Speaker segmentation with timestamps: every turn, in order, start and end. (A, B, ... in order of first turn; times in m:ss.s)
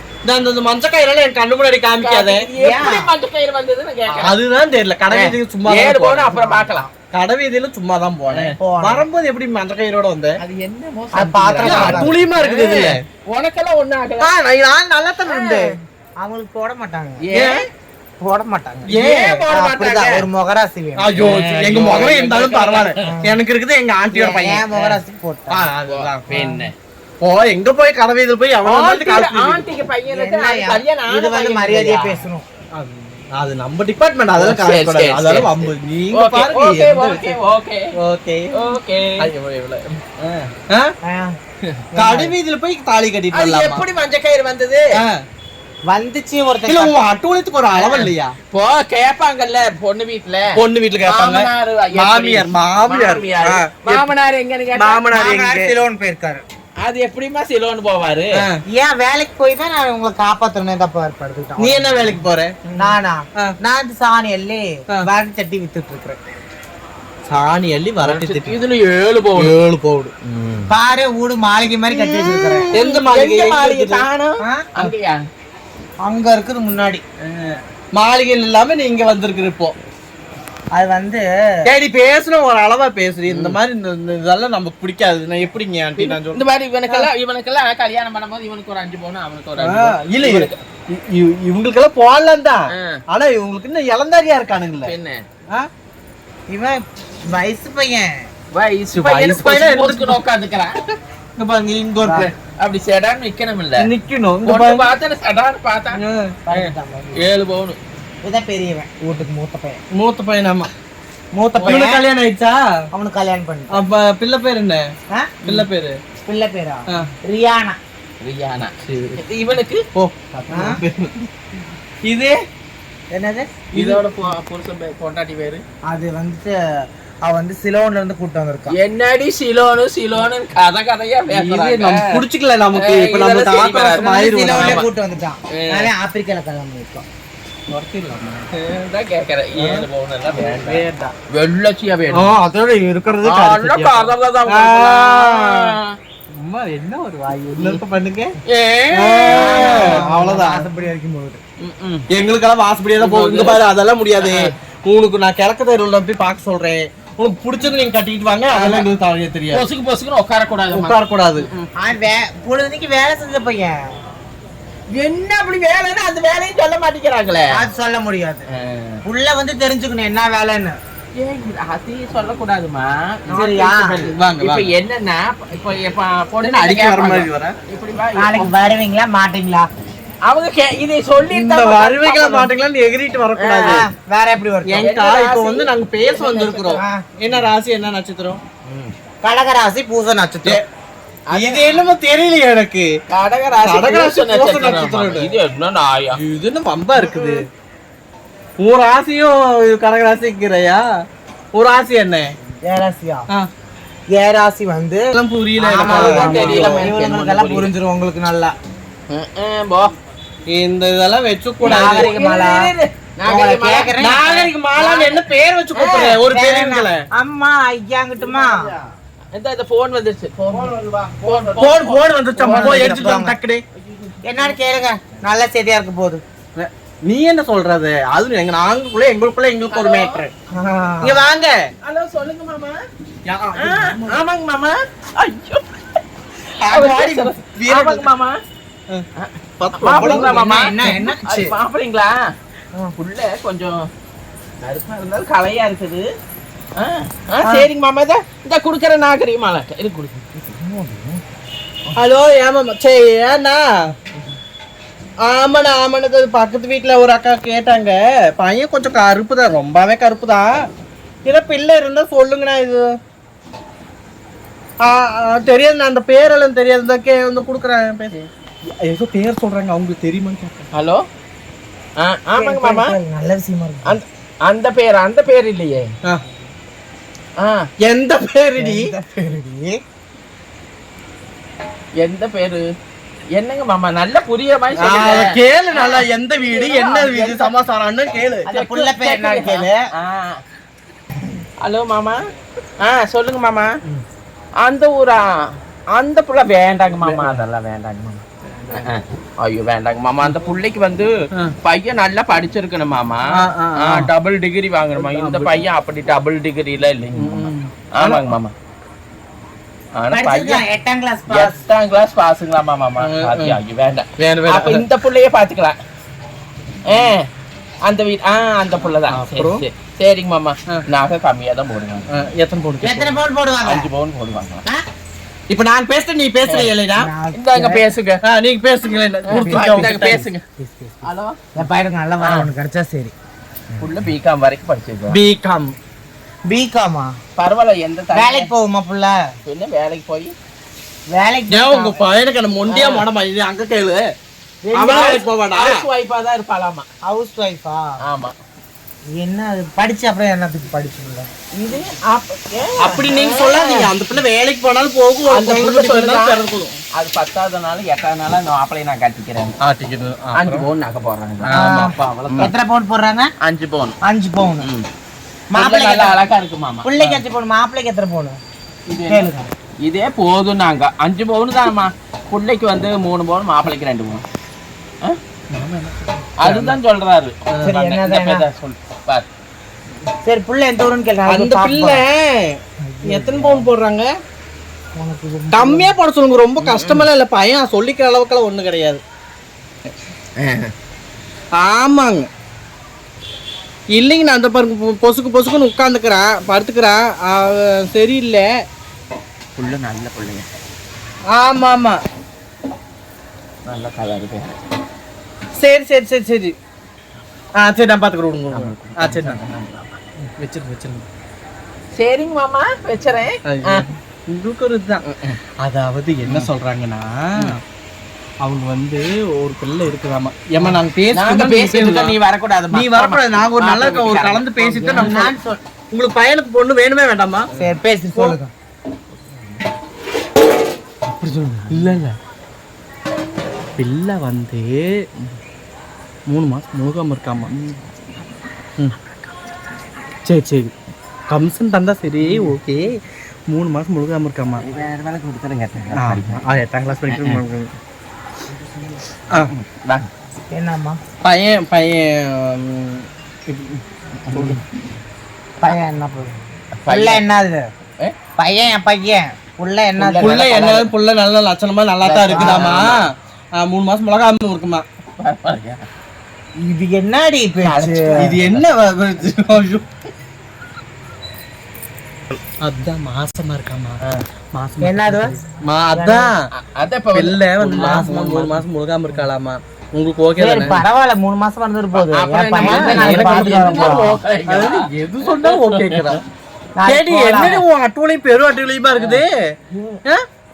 0:00.2-0:02.5 A
0:02.0-0:04.3 B
0:02.5-0:03.1 C
0:04.1-0:06.4 A
0:05.1-0:06.9 B
0:06.3-0:06.9 C
0:07.1-0:10.4 A
0:08.3-0:08.6 B
0:08.6-0:09.0 C
0:10.4-0:14.3 B
0:11.1-0:12.2 C
0:11.6-0:13.0 A
0:14.2-0:17.2 C
0:15.2-0:15.8 B
0:17.2-0:17.6 B
0:17.3-0:17.6 A
0:18.2-0:18.9 C
0:18.9-0:20.0 B
0:18.9-0:20.2 A
0:19.5-0:21.1 C
0:21.0-0:24.7 A
0:21.2-0:23.2 B
0:23.0-0:23.4 C
0:24.1-0:25.6 C
0:25.5-0:26.5 A
0:25.9-0:26.7 B
0:26.3-0:26.6 C
0:27.2-0:29.6 A
0:28.6-0:32.2 B
0:30.1-0:32.4 C
0:32.7-0:37.4 A
0:34.4-0:37.8 B
0:37.9-0:38.6 A
0:38.5-0:39.3 B
0:39.2-0:40.0 A
0:40.2-0:40.5 B
0:41.0-0:41.3 C
0:41.9-0:42.3 C
0:42.0-0:43.8 A
0:43.3-0:44.8 B
0:44.9-0:45.2 A
0:45.9-0:46.9 C
0:46.6-0:48.3 A
0:47.7-0:55.0 B
0:50.5-0:54.1 A
0:54.7-0:55.7 A
0:55.1-0:56.4 C
0:56.8-0:58.4 B
0:58.3-0:58.6 A
0:58.7-1:02.2 C
1:01.6-1:02.7 A
1:02.8-1:06.2 C
1:07.3-1:08.6 A
1:08.0-1:09.5 B
1:09.4-1:10.1 A
1:10.2-1:10.7 B
1:10.7-1:12.7 C
1:11.9-1:15.2 B
1:12.7-1:14.0 A
1:16.0-1:17.0 C
1:17.2-1:17.6 B
1:17.9-1:19.7 A
1:20.7-1:21.2 C
1:21.6-1:26.4 A
1:23.3-1:23.6 B
1:26.0-1:30.6 B
1:29.6-1:34.9 A
1:32.7-1:33.0 B
1:34.8-1:35.2 B
1:36.5-1:38.2 C
1:38.5-1:40.8 B
1:38.9-1:40.2 A
1:41.4-1:42.3 C
1:42.0-1:43.9 B
1:43.8-1:44.9 A
1:44.4-1:47.8 B
1:45.9-1:46.4 A
1:46.5-1:47.2 C
1:48.2-1:49.8 C
1:49.9-1:50.7 A
1:51.3-1:52.0 C
1:51.5-1:51.8 B
1:51.6-1:52.6 A
1:52.9-1:53.8 C
1:53.7-1:54.9 A
1:55.1-1:55.4 C
1:55.4-1:56.0 A
1:56.2-1:57.8 C
1:58.2-1:59.8 B
1:58.8-1:59.2 A
1:59.9-2:01.2 A
2:00.5-2:00.8 C
2:02.1-2:02.4 A
2:03.1-2:03.6 C
2:03.7-2:04.0 A
2:03.7-2:05.6 B
2:05.9-2:08.8 C
2:08.7-2:12.2 B
2:11.3-2:14.8 A
2:12.8-2:14.8 B
2:14.0-2:17.0 C
2:15.6-2:15.9 B
2:17.7-2:18.5 A
2:18.5-2:22.3 B
2:19.6-2:21.1 A
2:22.1-2:25.7 A
2:23.2-2:26.0 B
2:26.4-2:28.4 A
2:28.5-2:30.0 B
2:28.9-2:30.7 A
2:29.3-2:31.4 C
2:31.6-2:32.0 B
2:32.1-2:39.6 A
2:33.0-2:33.6 B
2:34.2-2:34.5 B
2:38.5-2:38.9 B
2:39.5-2:41.7 B
2:40.7-2:41.5 A
2:41.8-2:43.8 C
2:44.9-2:47.7 B
2:47.5-2:48.5 C
2:48.5-2:49.0 B
2:49.0-2:50.8 C
2:51.2-2:58.5 B
2:53.3-2:54.1 C
2:54.1-2:54.7 A
2:56.4-2:57.6 A
2:58.1-2:59.7 C
3:00.2-3:02.6 B
3:01.3-3:03.8 A
3:03.4-3:03.8 B
3:03.6-3:04.8 C
3:04.7-3:08.4 A
3:04.8-3:07.4 B
3:06.8-3:07.0 C
3:08.6-3:08.9 B
3:09.2-3:10.6 C
3:11.3-3:11.8 B
3:11.3-3:12.9 A
3:13.1-3:16.2 B
3:13.6-3:15.3 A
3:16.1-3:17.4 A
3:17.0-3:17.4 C
3:18.6-3:20.8 A
3:21.5-3:22.3 A
3:22.6-3:23.3 C
3:24.1-3:28.5 C
3:25.1-3:26.9 A
3:25.8-3:27.7 B
3:29.1-3:29.9 B
3:30.5-3:32.1 A
3:31.6-3:36.2 B
3:31.6-3:32.7 C
3:33.2-3:34.2 C
3:34.0-3:37.0 A
3:35.8-3:38.7 C
3:39.3-3:43.1 B
3:40.5-3:43.6 A
3:41.6-3:43.4 C
3:43.8-3:44.5 B
3:44.2-3:46.2 C
3:46.6-3:50.3 A
3:49.7-3:50.2 B
3:50.5-3:51.2 C
3:51.0-3:51.5 A
3:51.8-3:52.8 B
3:53.3-3:54.2 A
3:53.6-3:55.6 B
3:56.6-3:58.1 A
3:56.6-3:58.4 B
3:59.2-4:02.3 B
3:59.6-4:00.9 A
4:00.0-4:01.5 C
4:03.0-4:03.9 B
4:04.6-4:06.0 B
4:06.8-4:10.2 B
4:07.4-4:07.7 C
4:10.3-4:11.2 C
4:12.0-4:13.6 A
4:15.3-4:20.5 A
4:21.2-4:22.9 A
4:24.8-4:28.1 A
4:28.8-4:30.7 A
4:30.7-4:31.0 B
4:32.0-4:32.9 B
4:32.4-4:34.0 C
4:33.8-4:35.9 B
4:37.4-4:37.7 B
4:37.8-4:38.9 A
4:38.6-4:39.8 C
4:42.0-4:42.6 B
4:43.3-4:47.5 B
4:44.8-4:48.5 A
4:48.4-4:50.4 B
4:48.5-4:49.9 C
4:51.6-4:52.2 B
4:52.8-4:53.7 B
4:54.6-4:55.2 B
4:55.9-5:01.1 B
4:57.0-4:57.4 A
4:58.6-4:58.9 A
5:01.6-5:08.5 B
5:03.3-5:04.1 A
5:05.0-5:05.6 A
5:07.1-5:08.3 A
5:10.0-5:10.6 B
5:10.1-5:11.6 C
5:11.3-5:15.8 B
5:13.0-5:13.6 A
5:14.2-5:14.8 A
5:16.9-5:17.3 B
5:17.8-5:22.1 B
5:19.1-5:19.6 A
5:22.1-5:23.2 A
5:22.8-5:23.9 C
5:23.6-5:24.6 B
5:25.5-5:27.1 A
5:26.4-5:26.7 B
5:27.0-5:27.8 C
5:27.3-5:28.2 B
5:28.2-5:30.3 A
5:29.3-5:30.4 B
5:29.3-5:33.1 C
5:31.0-5:31.4 B
5:32.2-5:32.5 B
5:33.8-5:35.2 B
5:35.1-5:35.7 A
5:36.5-5:37.1 C
5:37.4-5:38.5 B
5:38.1-5:39.2 C
5:39.4-5:40.3 B
5:41.1-5:42.0 C
5:41.5-5:44.0 A
5:42.7-5:43.0 B
5:44.6-5:45.3 C
5:44.7-5:45.8 A
5:44.8-5:46.8 B
5:47.0-5:48.0 C
5:48.0-5:48.3 B
5:49.1-5:51.3 C
5:51.5-5:53.9 B
5:52.8-5:56.8 A
5:55.3-5:56.4 B
5:56.9-5:59.5 B
5:59.6-6:00.6 A
6:00.3-6:02.5 B
6:01.4-6:02.5 A
6:01.5-6:03.3 C
6:03.4-6:04.0 B
6:04.0-6:04.7 C
6:04.6-6:04.9 B
6:05.5-6:06.2 C
6:05.5-6:06.9 B
6:06.8-6:08.4 C
6:08.9-6:09.3 B
6:09.1-6:09.5 C
6:09.8-6:14.2 B
6:15.5-6:16.8 A
6:16.4-6:19.2 B
6:17.6-6:18.5 C
6:20.2-6:22.0 C
6:21.3-6:22.5 A
6:22.8-6:23.7 C
6:23.1-6:24.1 A
6:25.0-6:25.9 C
6:25.5-6:29.0 A
6:26.6-6:27.1 B
6:30.4-6:30.7 B
6:31.6-6:32.3 A
6:34.0-6:38.5 A
6:39.6-6:40.5 B
6:41.3-6:42.0 A
6:43.6-6:44.6 B
6:45.6-6:46.5 A
6:47.6-6:49.4 A
6:48.5-6:50.0 B
6:50.2-6:51.0 A
6:52.0-6:53.8 B
6:53.4-6:55.0 A
6:55.0-6:55.4 B
6:55.6-6:57.6 A
6:58.4-7:02.2 A
7:01.1-7:05.2 B
7:02.7-7:05.3 A
7:04.8-7:05.6 C
7:05.9-7:07.5 A
7:07.5-7:08.5 C
7:09.3-7:09.6 B
7:11.0-7:12.0 B
7:11.7-7:12.1 A
7:13.8-7:15.0 A
7:16.3-7:17.7 A
7:20.2-7:20.7 A
7:21.3-7:23.0 A
7:22.2-7:22.5 B
7:23.5-7:24.6 A
7:24.6-7:26.4 B
7:25.9-7:27.7 A
7:27.1-7:27.4 B
7:29.5-7:30.1 B
7:30.5-7:31.0 C
7:31.2-7:34.6 A
7:34.2-7:34.6 B
7:35.6-7:36.4 C
7:36.8-7:37.2 B
7:36.9-7:37.6 C
7:38.4-7:40.5 C
7:40.0-7:40.9 B
7:40.2-7:43.0 A
7:42.0-7:43.0 B
7:42.3-7:42.8 C
7:43.6-7:44.8 A
7:45.2-7:45.8 B
7:46.6-7:48.4 C
7:47.6-7:48.6 B
7:48.2-7:49.8 A
7:52.6-7:54.0 A
7:54.5-7:56.5 A
7:54.8-7:55.4 C
7:55.9-7:56.3 C
7:56.6-7:58.6 B
7:57.1-8:00.8 A
8:00.4-8:04.2 C
8:01.9-8:06.2 B
8:02.6-8:06.2 A
8:06.8-8:07.6 C
8:06.8-8:09.5 A
8:09.0-8:09.2 B
8:09.7-8:10.0 C